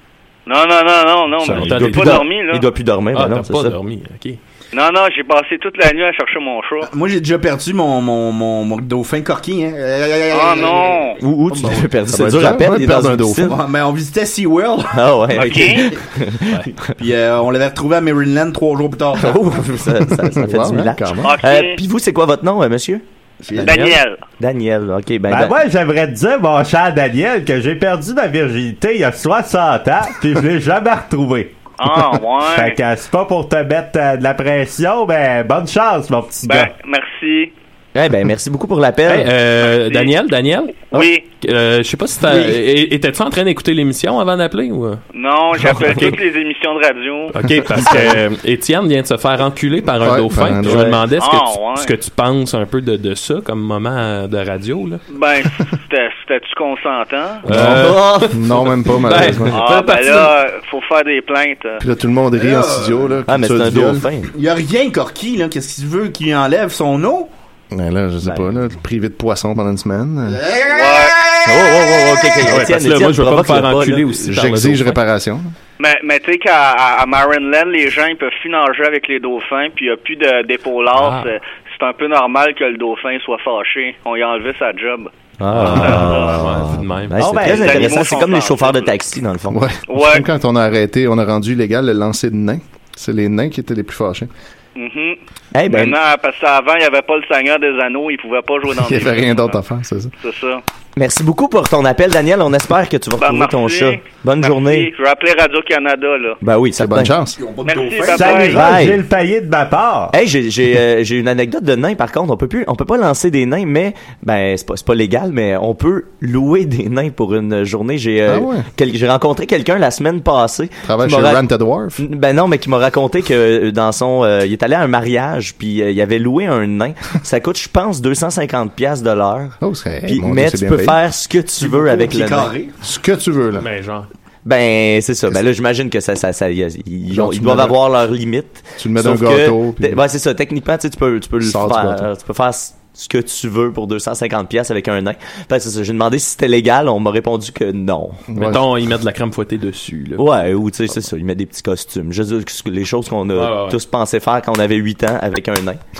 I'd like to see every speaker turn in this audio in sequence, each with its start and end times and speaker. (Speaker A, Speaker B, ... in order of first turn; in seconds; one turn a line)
Speaker A: 0.5-2.6
Speaker B: 1.4-2.2
Speaker C: 1.4-3.8
Speaker B: 3.1-4.4
Speaker A: 4.7-6.9
Speaker D: 6.8-11.8
Speaker A: 10.3-11.2
Speaker C: 11.2-13.6
Speaker E: 12.1-13.6
Speaker D: 13.5-15.0
Speaker C: 14.9-16.9
Speaker A: 15.3-15.9
Speaker D: 17.0-19.4
Speaker C: 19.2-23.0
Speaker E: 20.0-21.3
Speaker A: 21.2-21.8
Speaker D: 23.4-23.9
Speaker A: 23.6-24.2
Speaker B: 23.7-23.9
Speaker C: 24.4-25.6
Speaker F: 25.3-31.5
Speaker A: 31.8-32.8
Speaker F: 32.4-36.7
Speaker A: 36.5-37.5
Speaker C: 37.9-39.3
Speaker B: 39.1-40.9
Speaker A: 39.6-40.1
Speaker A: 40.9-41.2
Speaker B: 41.4-45.0
Speaker A: 45.1-47.3
Speaker B: 45.6-46.1
Speaker B: 47.3-55.0
Speaker C: 47.9-48.1
Speaker E: 50.0-51.0
Speaker C: 50.6-51.0
Speaker A: 51.1-51.9
Speaker A: 55.1-57.4
Speaker B: 57.4-60.3
Speaker E: 57.5-59.6
Speaker C: 57.6-58.4
Speaker A: 59.5-61.8
Speaker E: 61.8-64.1
Speaker D: 62.4-63.1
Speaker C: 63.3-64.3
Speaker D: 64.3-67.3
Speaker E: 67.7-70.4
Speaker D: 70.4-70.8
Speaker A: 70.7-71.2
Speaker C: 71.5-74.1
Speaker B: 72.4-75.0
Speaker E: 74.2-75.5
Speaker A: 75.8-85.1
Speaker B: 80.9-81.3
Speaker C: 85.4-89.6
Speaker B: 85.5-87.3
Speaker A: 85.9-86.4
Speaker F: 87.2-88.0
Speaker A: 87.4-88.9
Speaker E: 89.5-94.3
Speaker A: 89.9-90.2
Speaker A: 94.8-99.6
Speaker C: 95.5-96.0
Speaker E: 98.8-100.1
Speaker A: 100.2-100.6
Speaker C: 101.0-104.9
Speaker A: 103.2-106.4
Speaker C: 106.4-107.2
Speaker E: 106.8-107.4
Speaker D: 107.4-108.5
Speaker A: 107.7-108.6
Speaker F: 108.1-110.1
Speaker C: 108.5-109.0
Speaker C: 110.1-121.4
Speaker E: 118.3-118.7
Speaker E: 120.8-122.0
Speaker C: 122.0-132.5
Speaker E: 129.6-131.0
Speaker D: 131.6-132.7
Speaker E: 132.8-133.7
Speaker B: 133.6-134.1
Speaker C: 134.4-148.2
Speaker E: 137.1-137.8
Speaker E: 138.8-140.0
Speaker E: 141.4-142.1
Speaker E: 148.3-148.7
Speaker B: 148.3-150.2
Speaker C: 150.2-155.8
Speaker B: 153.3-153.8